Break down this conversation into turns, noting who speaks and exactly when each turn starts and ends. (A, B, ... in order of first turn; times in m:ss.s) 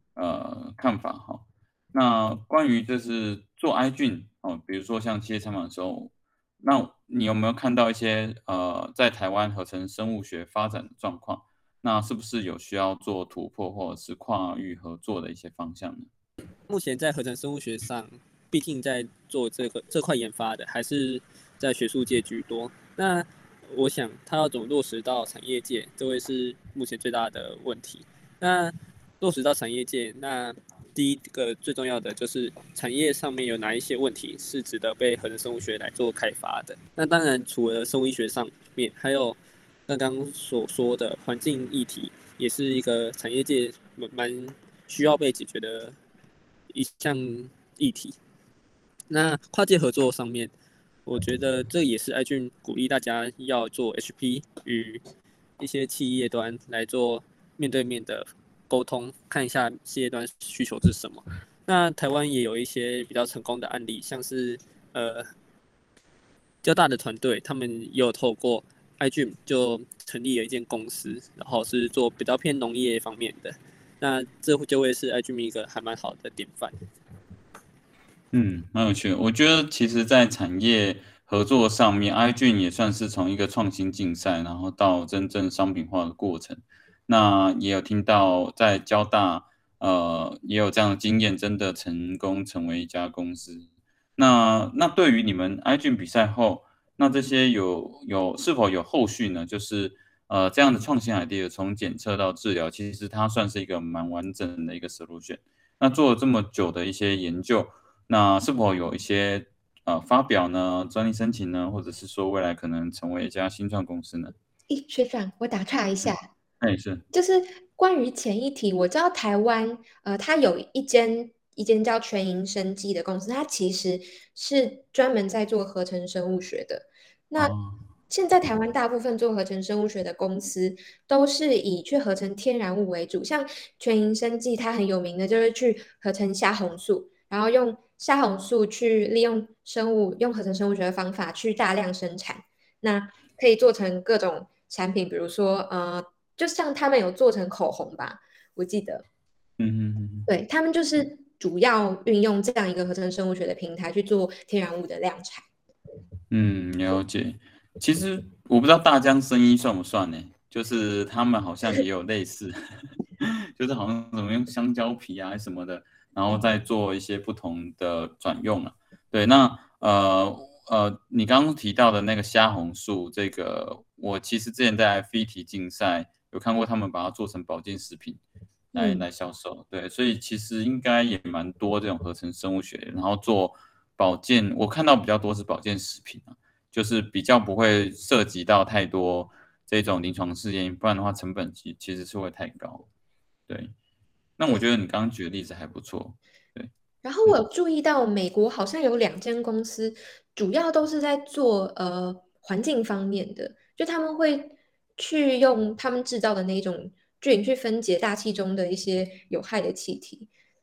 0:00.1-0:16.1 A
0:16.7-0:46.0 B
0:46.7-0:48.2 B
0:49.1-0:50.5 B
0:51.1-0:55.0 B
0:55.6-1:05.3 B
1:06.6-1:16.8 B
1:18.3-1:54.4 A
1:54.7-1:56.3 C
1:56.0-1:57.0 A
1:57.1-2:07.5 C
2:07.4-2:07.8 A
2:08.1-2:29.0 C
2:29.6-2:30.3 A
2:30.3-2:35.4 C
2:36.3-2:58.2 A
2:58.7-2:59.0 C
2:58.8-3:12.8 A
3:13.5-3:13.7 A
3:14.4-3:16.7 A
3:17.0-3:30.3 C